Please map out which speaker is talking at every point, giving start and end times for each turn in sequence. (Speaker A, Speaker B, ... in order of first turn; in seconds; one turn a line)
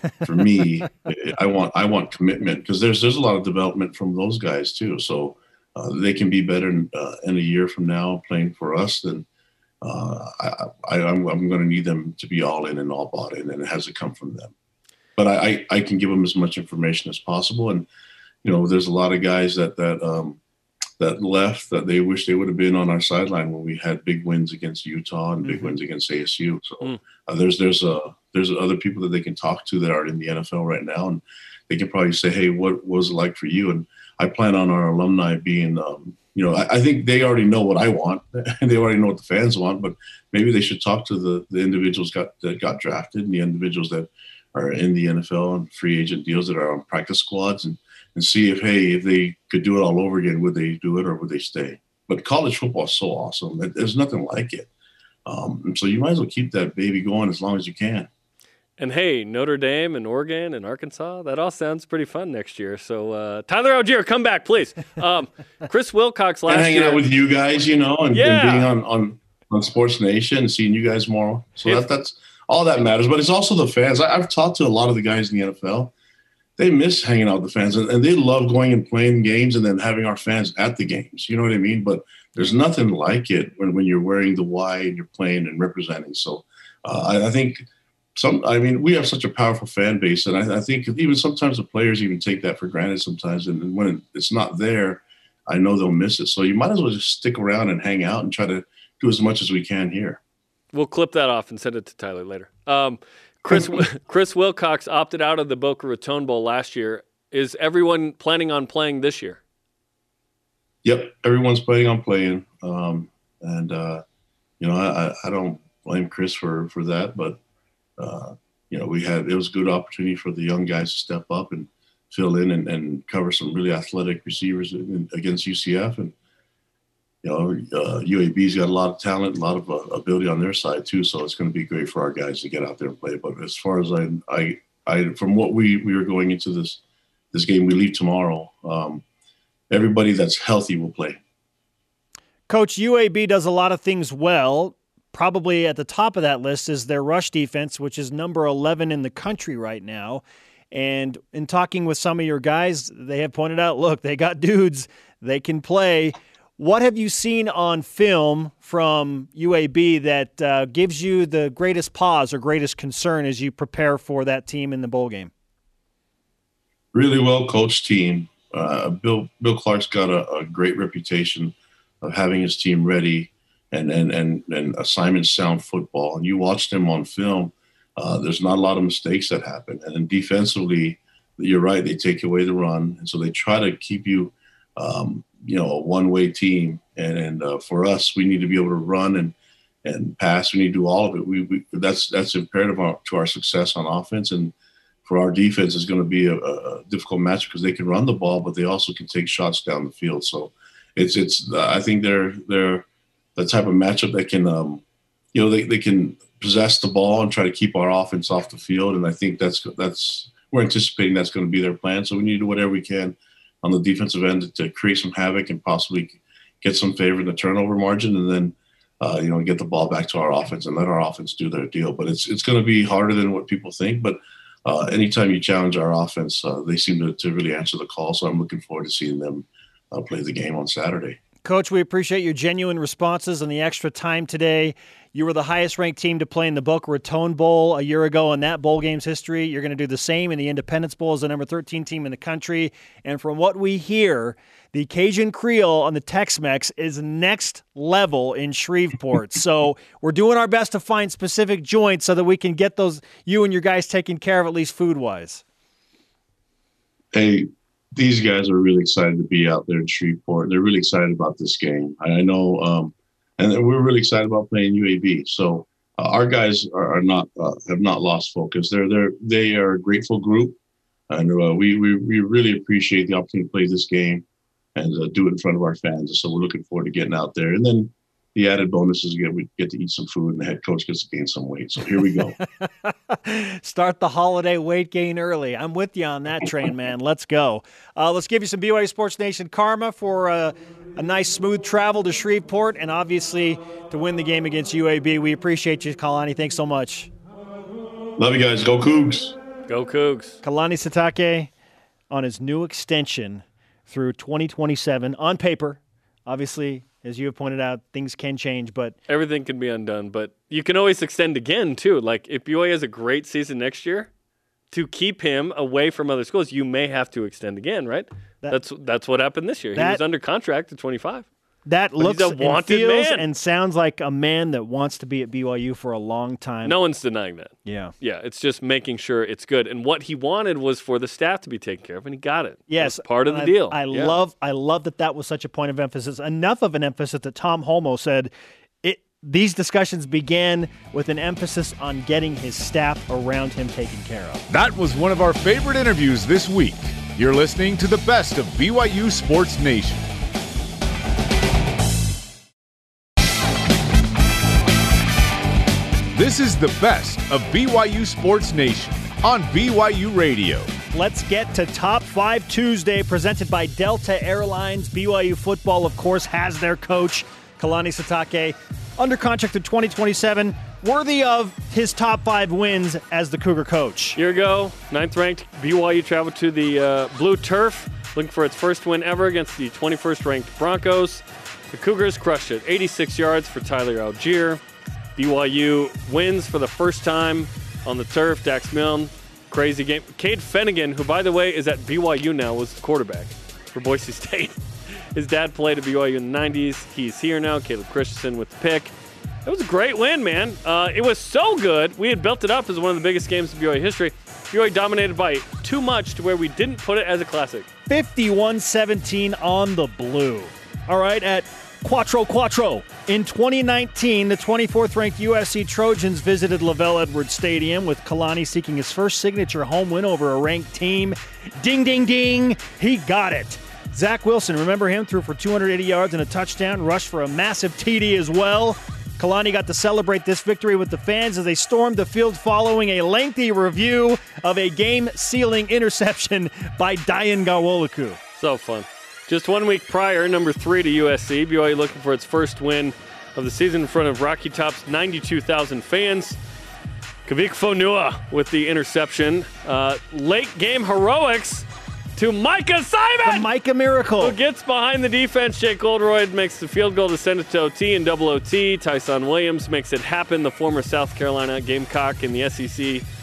Speaker A: 0.2-9.2
Speaker A: 9.8-14.5
Speaker A: 15.2-17.9
Speaker A: 18.4-20.4
Speaker A: 21.0-54.7
Speaker A: 55.2-58.1
Speaker B: 58.8-67.0
Speaker A: 66.5-75.9
Speaker B: 68.1-68.7
Speaker A: 76.6-100.2
Speaker B: 100.7-109.4
Speaker A: 110.8-114.0
Speaker A: 114.6-117.4
Speaker A: 118.0-126.1
Speaker A: 127.2-136.8
Speaker A: 137.3-139.0
Speaker A: 139.7-141.2
Speaker C: 142.5-165.3
Speaker A: 166.9-194.5
Speaker A: 195.0-231.2
Speaker C: 231.4-255.4
Speaker A: 257.1-270.6
Speaker A: 271.1-274.2
Speaker A: 274.8-282.4
Speaker C: 282.6-297.1
Speaker A: 298.2-299.4
Speaker B: 299.7-300.4
Speaker C: 300.4-301.5
Speaker C: 302.1-309.0
Speaker B: 309.1-314.1
Speaker B: 314.7-321.2
Speaker C: 319.7-320.0
Speaker C: 321.6-326.8
Speaker B: 322.0-323.2
Speaker B: 326.6-334.1
Speaker C: 327.6-327.9
Speaker C: 332.7-338.3
Speaker C: 338.8-344.4
Speaker D: 344.5-350.1
Speaker D: 356.1-360.7
Speaker C: 360.9-374.2
Speaker B: 374.1-384.6
Speaker B: 385.1-394.6
Speaker B: 395.1-398.9
Speaker B: 399.4-407.7
Speaker C: 407.9-438.2
Speaker B: 438.4-446.4
Speaker B: 447.2-453.5
Speaker C: 453.2-454.4
Speaker B: 454.2-463.0